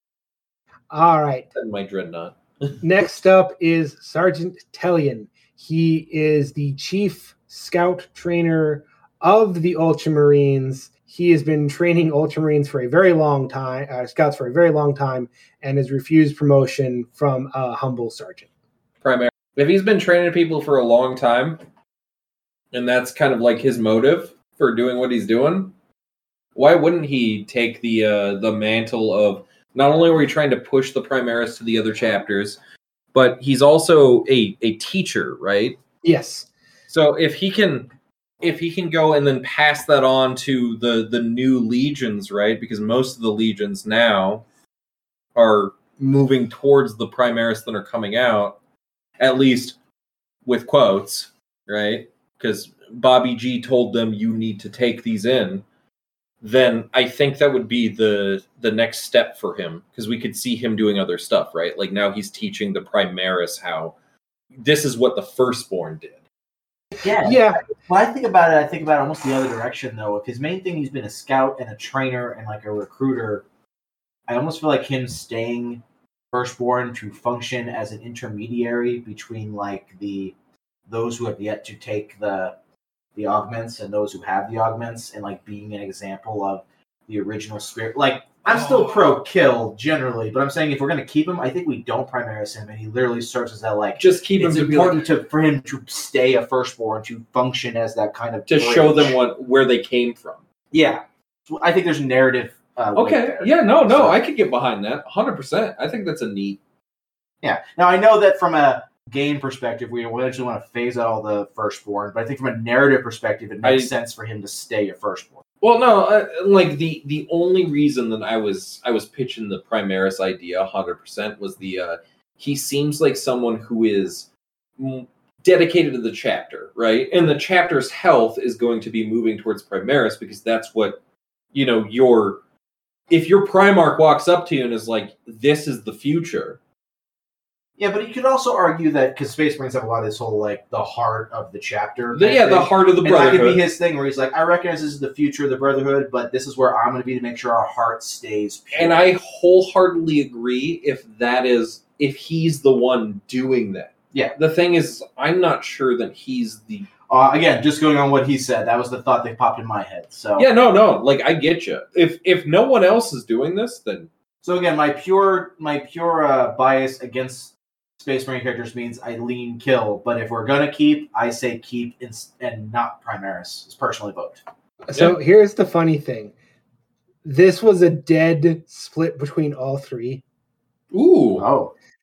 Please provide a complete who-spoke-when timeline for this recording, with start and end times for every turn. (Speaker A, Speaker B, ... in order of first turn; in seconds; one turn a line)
Speaker A: 0.9-1.5
Speaker B: 1.6-2.8
Speaker A: 2.8-18.5
Speaker B: 19.0-21.6
Speaker B: 22.7-25.7
Speaker B: 26.6-32.6
Speaker B: 33.1-35.8
Speaker A: 36.0-36.5
Speaker B: 36.9-37.9
Speaker B: 38.4-44.4
Speaker B: 45.4-48.6
Speaker B: 49.2-49.8
Speaker B: 50.5-55.6
Speaker B: 56.4-64.0
Speaker B: 64.6-66.2
Speaker C: 67.0-73.5
Speaker A: 67.2-67.6
Speaker C: 74.3-80.3
Speaker C: 80.9-82.5
Speaker C: 83.2-99.2
Speaker B: 88.7-89.0
Speaker B: 94.0-95.0
Speaker B: 98.5-100.4
Speaker C: 100.7-104.2
Speaker B: 103.0-106.6
Speaker C: 107.4-115.4
Speaker B: 113.6-113.9
Speaker B: 115.6-131.0
Speaker B: 131.5-132.4
Speaker B: 133.1-136.6
Speaker C: 137.8-149.1
Speaker B: 142.1-143.6
Speaker B: 148.7-156.9
Speaker C: 157.1-160.5
Speaker B: 160.4-164.1
Speaker C: 164.4-174.4
Speaker A: 174.9-176.3
Speaker A: 177.2-180.2
Speaker B: 180.9-181.5
Speaker C: 181.4-181.7